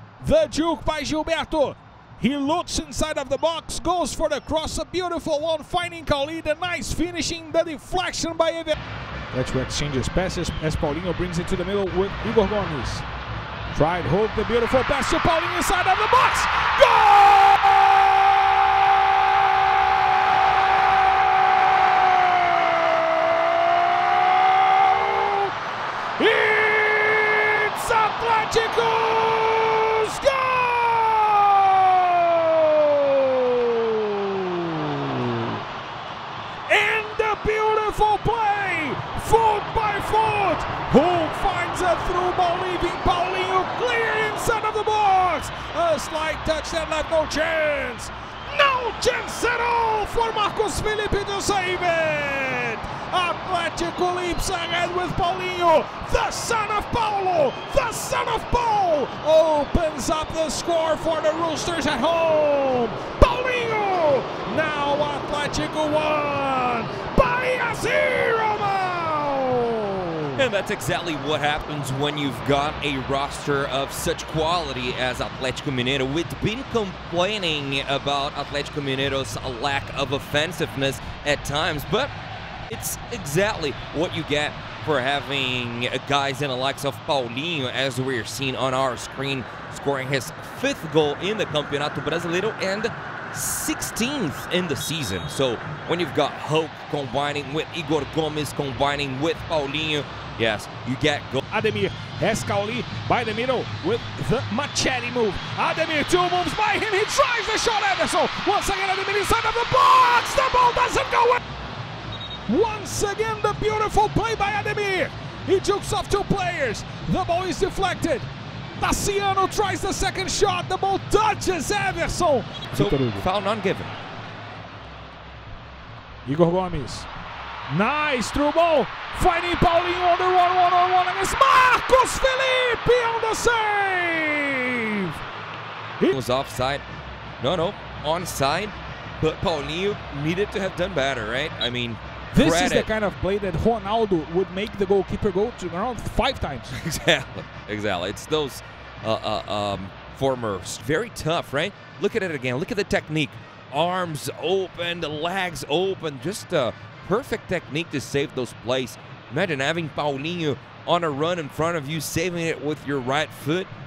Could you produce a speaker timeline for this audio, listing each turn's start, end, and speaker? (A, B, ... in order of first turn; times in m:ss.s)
0:00.2-0:08.8 A
0:09.3-0:13.0 A
0:13.7-0:19.0 A
0:24.0-0:25.5 A
0:26.2-0:35.5 A
0:36.7-1:10.5 A
1:10.4-1:22.1 B
1:22.7-1:41.4 B
1:41.5-1:51.4 A
1:52.5-2:03.3 A
2:02.7-2:03.9 B
2:06.2-2:07.1 A
2:07.7-2:15.2 A
2:16.1-2:16.8 B
2:17.4-2:22.9 B
2:22.3-2:26.8 A
2:26.7-2:43.7 B